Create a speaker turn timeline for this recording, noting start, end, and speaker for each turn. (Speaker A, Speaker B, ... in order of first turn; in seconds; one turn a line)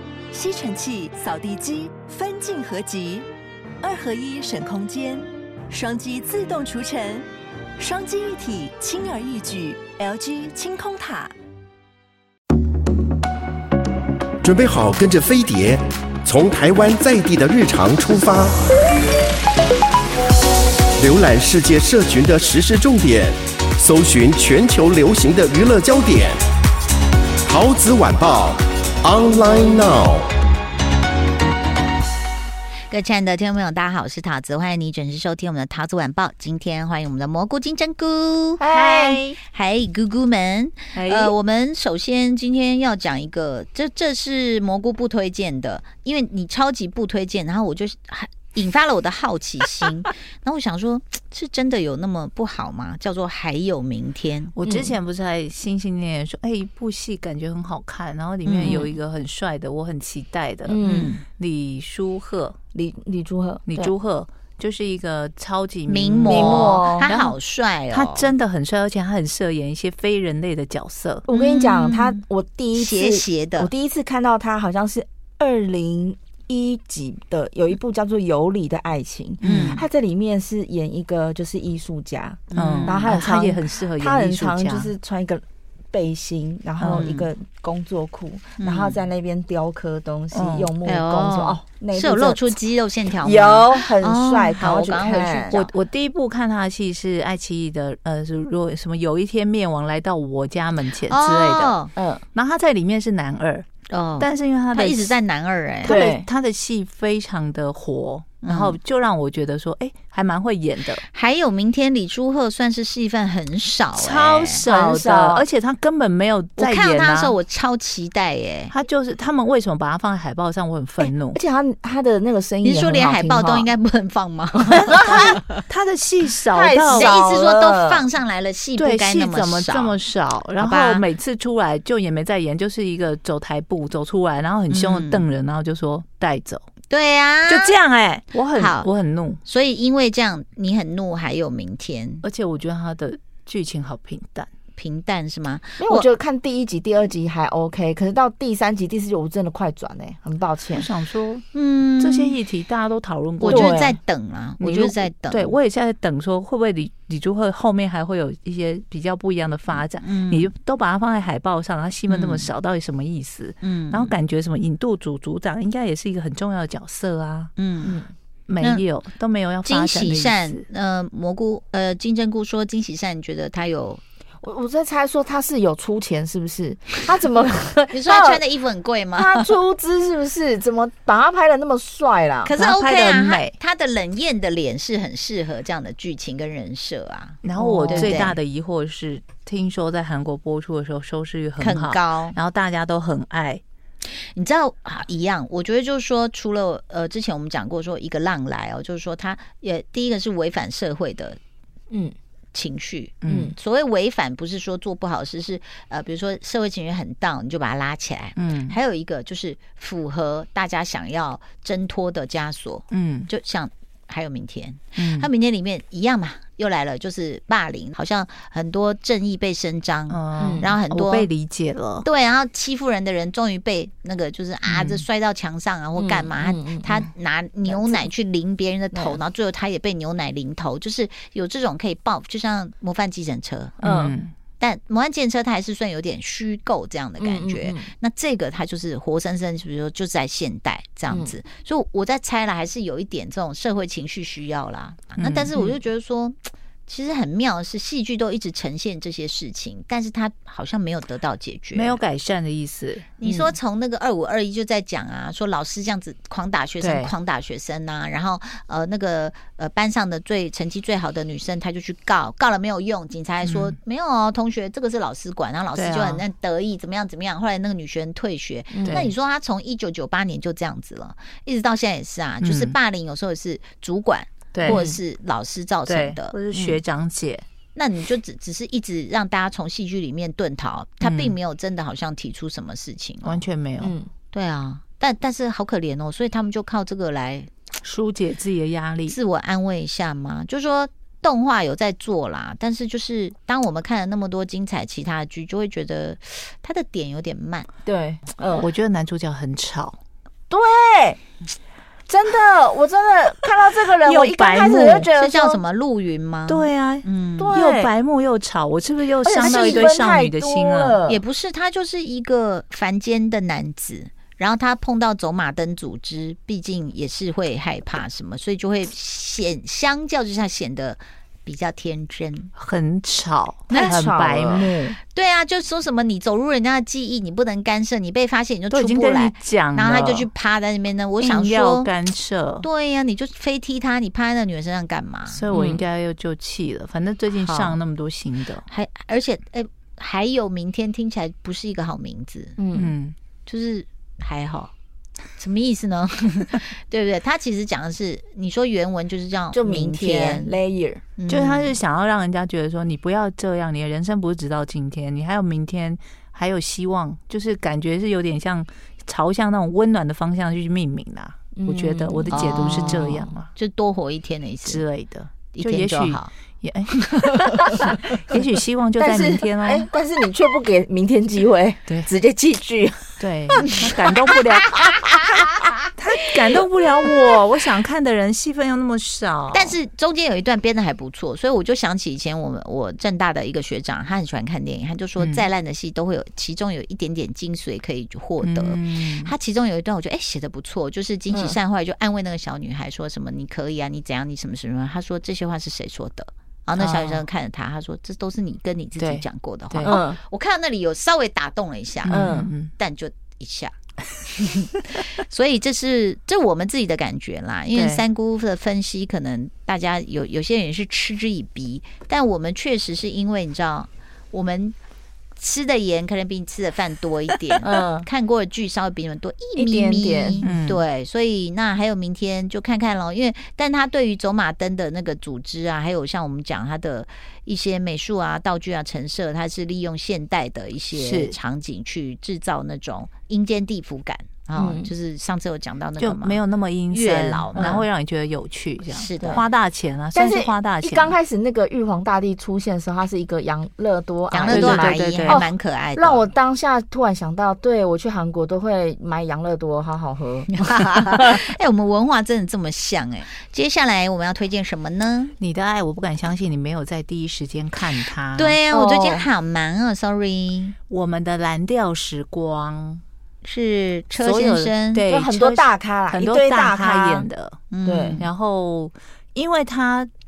Speaker A: 0.3-3.2
Speaker A: 3.8-7.3
Speaker A: 7.8-11.3
Speaker B: 14.4-18.6
Speaker B: 21.0-26.4
Speaker B: 27.4-30.3
Speaker C: 32.9-38.6
Speaker D: 38.6-39.3
Speaker E: 38.7-39.4
Speaker C: 39.5-54.5
Speaker E: 40.9-41.3
Speaker E: 54.5-62.5
Speaker D: 54.6-55.0
Speaker C: 58.4-58.9
Speaker D: 60.7-61.1
Speaker C: 60.8-61.2
Speaker D: 62.7-63.9
Speaker E: 63.7-67.4
Speaker C: 65.9-68.3
Speaker D: 66.2-67.2
Speaker E: 67.9-71.2
Speaker D: 71.3-92.6
Speaker C: 71.3-72.2
Speaker C: 72.7-73.7
Speaker E: 79.4-79.8
Speaker C: 79.4-79.8
Speaker C: 82.5-83.1
Speaker E: 82.5-84.9
Speaker E: 86.8-87.1
Speaker C: 86.8-87.3
Speaker C: 88.6-89.0
Speaker E: 90.3-90.7
Speaker C: 90.8-95.7
Speaker D: 93.2-95.6
Speaker E: 95.5-101.8
Speaker C: 101.1-101.9
Speaker D: 102.0-102.2
Speaker E: 102.3-103.7
Speaker C: 103.9-106.0
Speaker E: 104.2-105.1
Speaker E: 105.8-111.0
Speaker D: 105.8-106.3
Speaker C: 108.4-108.8
Speaker C: 111.0-114.6
Speaker E: 113.9-117.3
Speaker D: 114.6-115.4
Speaker C: 116.6-118.7
Speaker E: 118.7-121.4
Speaker D: 121.3-123.7
Speaker C: 122.6-125.4
Speaker D: 124.6-125.4
Speaker E: 125.7-127.2
Speaker D: 126.5-128.0
Speaker C: 126.9-130.0
Speaker E: 128.8-136.6
Speaker C: 130.6-131.1
Speaker C: 134.7-135.2
Speaker C: 136.9-137.7
Speaker E: 137.4-139.4
Speaker C: 138.4-138.9
Speaker C: 139.4-142.2
Speaker E: 142.2-144.5
Speaker C: 144.7-146.1
Speaker D: 145.8-150.9
Speaker E: 150.7-151.4
Speaker C: 151.5-152.3
Speaker E: 152.0-153.7
Speaker C: 153.4-155.6
Speaker D: 153.4-154.0
Speaker E: 154.6-167.5
Speaker C: 160.0-160.5
Speaker C: 162.1-162.5
Speaker C: 163.6-164.1
Speaker C: 167.6-168.0
Speaker D: 167.8-168.1
Speaker E: 168.5-170.6
Speaker C: 168.6-168.8
Speaker C: 169.6-174.0
Speaker D: 174.4-178.4
Speaker C: 177.9-179.5
Speaker D: 179.1-182.5
Speaker C: 182.4-188.4
Speaker E: 182.5-183.5
Speaker E: 187.4-193.6
Speaker D: 187.6-188.3
Speaker C: 191.6-192.4
Speaker C: 194.3-201.4
Speaker C: 202.5-221.3
Speaker E: 203.2-203.5
Speaker D: 203.3-203.5
Speaker E: 208.3-208.8
Speaker E: 212.9-213.3
Speaker E: 214.9-215.3
Speaker E: 220.1-222.1
Speaker D: 220.4-220.7
Speaker C: 222.0-233.8
Speaker E: 224.6-225.0
Speaker D: 225.9-227.1
Speaker D: 227.7-228.1
Speaker D: 228.9-229.2
Speaker D: 233.8-234.2
Speaker E: 233.8-234.3
Speaker C: 234.6-252.0
Speaker D: 237.2-237.9
Speaker D: 241.1-241.3
Speaker E: 245.2-245.5
Speaker D: 245.5-245.8
Speaker E: 251.7-253.5
Speaker C: 253.2-276.4
Speaker E: 256.8-257.1
Speaker E: 263.4-263.7
Speaker E: 265.7-266.2
Speaker D: 268.7-269.1
Speaker E: 268.9-269.1
Speaker E: 272.4-272.8
Speaker E: 274.5-274.8
Speaker D: 274.6-275.0
Speaker E: 275.8-277.4
Speaker C: 277.7-283.4
Speaker E: 281.0-281.3
Speaker E: 283.2-283.9
Speaker D: 283.8-284.1
Speaker C: 284.3-287.5
Speaker E: 287.8-289.1
Speaker C: 289.1-297.7
Speaker D: 297.8-298.7
Speaker E: 298.6-300.0
Speaker D: 300.5-301.2
Speaker D: 302.1-305.6
Speaker E: 304.0-305.1
Speaker C: 305.1-307.6
Speaker E: 306.5-311.0
Speaker D: 307.4-307.9
Speaker D: 309.2-311.2
Speaker C: 309.4-309.9
Speaker C: 311.1-322.5
Speaker E: 322.6-324.7
Speaker D: 323.7-324.9
Speaker C: 323.7-324.0
Speaker C: 325.1-331.9
Speaker E: 328.7-330.3
Speaker E: 331.2-332.7
Speaker C: 332.6-335.8
Speaker E: 335.3-338.6
Speaker C: 337.3-337.8
Speaker C: 338.6-342.9
Speaker D: 342.6-342.9
Speaker E: 342.7-343.1
Speaker C: 343.4-344.7
Speaker C: 345.4-350.5
Speaker D: 349.5-351.0
Speaker C: 351.2-351.8
Speaker E: 351.3-363.5
Speaker D: 361.6-363.3
Speaker C: 362.3-364.8
Speaker E: 364.6-369.9
Speaker C: 365.5-366.3
Speaker D: 369.0-373.8
Speaker E: 373.2-375.0
Speaker C: 374.6-375.0
Speaker E: 376.0-379.8
Speaker C: 379.5-403.7
Speaker E: 385.2-385.4
Speaker E: 388.4-389.3
Speaker D: 391.3-391.6
Speaker E: 396.8-397.2
Speaker E: 399.0-400.0
Speaker D: 399.8-400.2
Speaker E: 402.0-402.7
Speaker D: 402.1-402.5
Speaker C: 404.2-414.8
Speaker E: 407.7-408.0
Speaker C: 415.4-437.9
Speaker D: 417.6-418.1
Speaker D: 419.6-420.4
Speaker E: 420.4-420.8
Speaker E: 430.9-431.4
Speaker D: 434.5-434.9
Speaker E: 436.0-441.1
Speaker D: 437.5-437.8
Speaker C: 438.9-439.4
Speaker D: 440.1-451.4
Speaker C: 444.3-446.3
Speaker E: 444.5-445.4
Speaker C: 450.5-455.3
Speaker E: 455.4-458.6
Speaker C: 458.3-460.7
Speaker D: 458.7-459.3
Speaker E: 460.9-463.0
Speaker C: 463.4-465.0
Speaker E: 464.2-467.6
Speaker D: 465.1-467.3
Speaker C: 467.7-468.2
Speaker D: 467.8-468.2
Speaker E: 468.2-470.1